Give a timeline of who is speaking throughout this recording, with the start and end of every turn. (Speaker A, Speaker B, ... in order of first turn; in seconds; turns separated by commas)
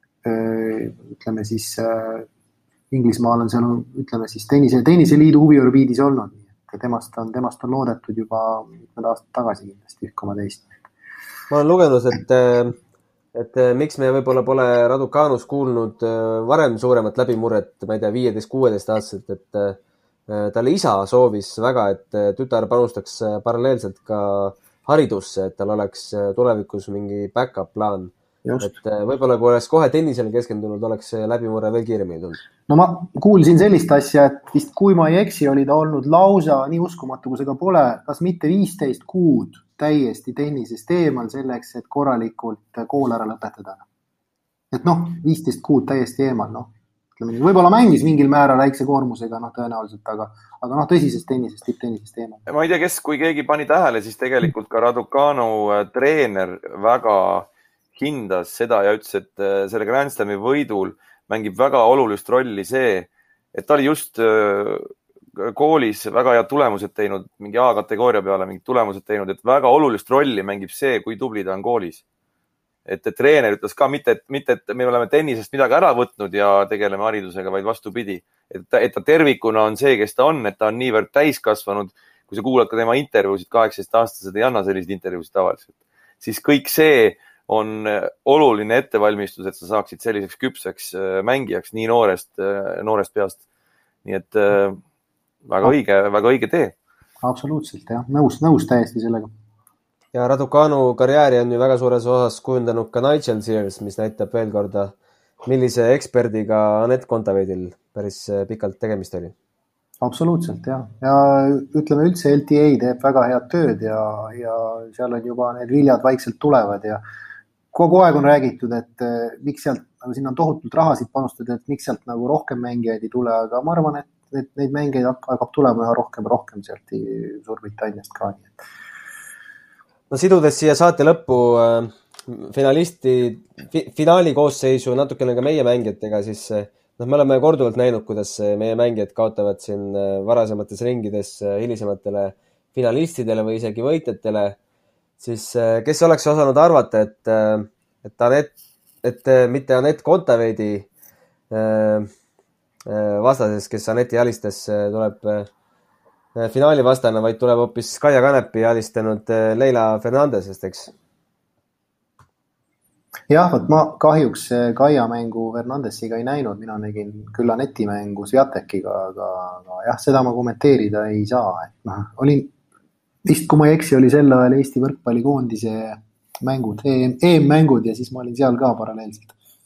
Speaker A: 0.2-2.3, Speaker A: 2.9-10.7, Speaker B: 11.5-12.8, Speaker B: 13.3-32.4, Speaker A: 28.4-28.7, Speaker A: 32.7-43.9, Speaker A: 44.7-52.4, Speaker C: 52.5-72.0, Speaker C: 72.8-85.7, Speaker C: 86.2-93.4, Speaker C: 94.0-94.8, Speaker C: 95.4-96.7, Speaker A: 97.2-99.3, Speaker B: 100.1-109.3, Speaker A: 110.0-117.0, Speaker A: 117.7-128.6, Speaker B: 130.1-144.6, Speaker B: 145.2-150.9, Speaker B: 151.5-152.1, Speaker B: 152.8-155.5, Speaker B: 156.3-160.9, Speaker A: 163.3-172.5, Speaker A: 173.2-179.3